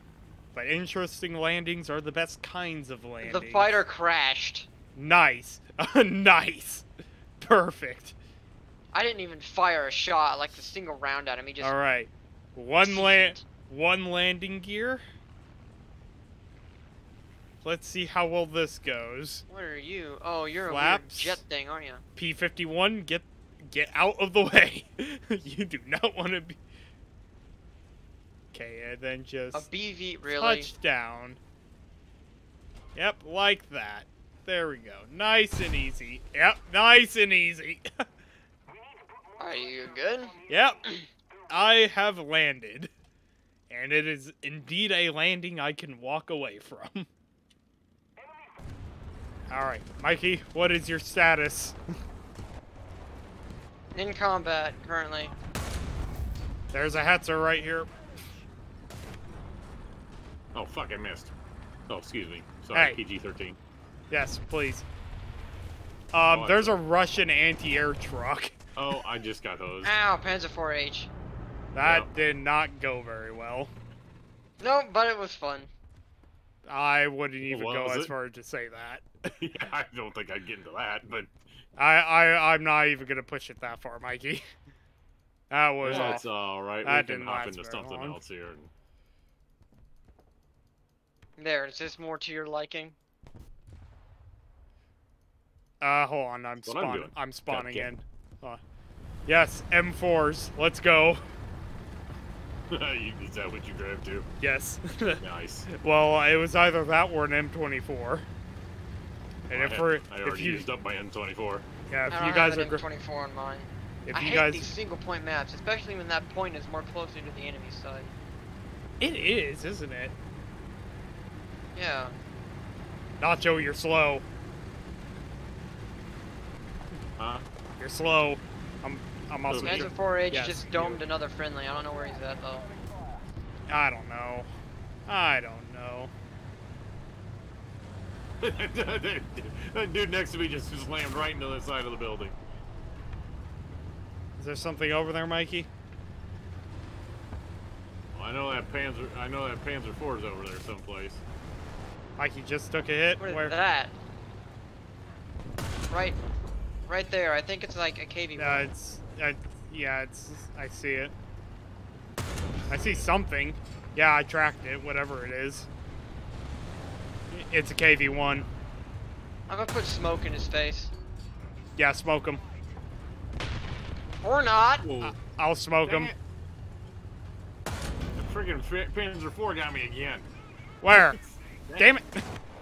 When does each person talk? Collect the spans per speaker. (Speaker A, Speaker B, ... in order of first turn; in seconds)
Speaker A: 0.5-3.8, 4.9-6.9, 7.4-8.2, 11.6-15.0, 17.6-19.4, 20.6-21.4, 22.1-26.6, 28.5-29.7, 30.3-31.4, 32.9-37.9, 40.5-40.8, 41.5-42.9, 43.7-47.1, 49.5-51.8, 56.7-57.9, 62.7-63.0, 64.1-64.8, 66.1-68.6, 71.7-73.7, 76.7-79.0, 81.8-84.4, 85.5-86.3, 86.8-88.2, 95.8-98.6, 99.3-101.2, 104.4-108.3, 109.5-110.7, 111.9-112.8, 114.0-114.7, 119.0-120.1, 123.2-124.2, 127.8-131.0, 133.7-134.5, 135.1-136.1, 144.4-145.7, 152.2-153.5, 158.4-161.1, 162.7-165.7, 167.3-168.5, 171.8-172.4, 175.0-176.1, 180.8-181.2, 181.8-182.2
Speaker B: 3.2-4.7, 8.9-11.7, 12.8-13.4, 19.5-22.0, 29.5-30.7, 39.4-40.4, 53.9-55.3, 69.8-71.1, 74.6-75.7, 91.4-93.0, 112.1-118.1, 121.7-122.1, 129.6-132.7, 153.2-153.9, 155.9-156.2, 156.8-158.7, 169.5-170.9, 174.2-174.8
Speaker C: 60.5-61.3, 61.9-63.6, 66.3-66.8, 68.8-69.9, 71.8-72.1, 77.4-78.1, 79.4-81.3, 85.8-88.7, 96.6-97.9, 102.7-104.3, 105.1-105.7, 109.5-111.7, 127.2-127.4, 129.5-129.9, 138.4-142.4, 148.1-151.2, 174.8-175.2, 175.8-176.2, 178.2-180.3, 180.9-181.9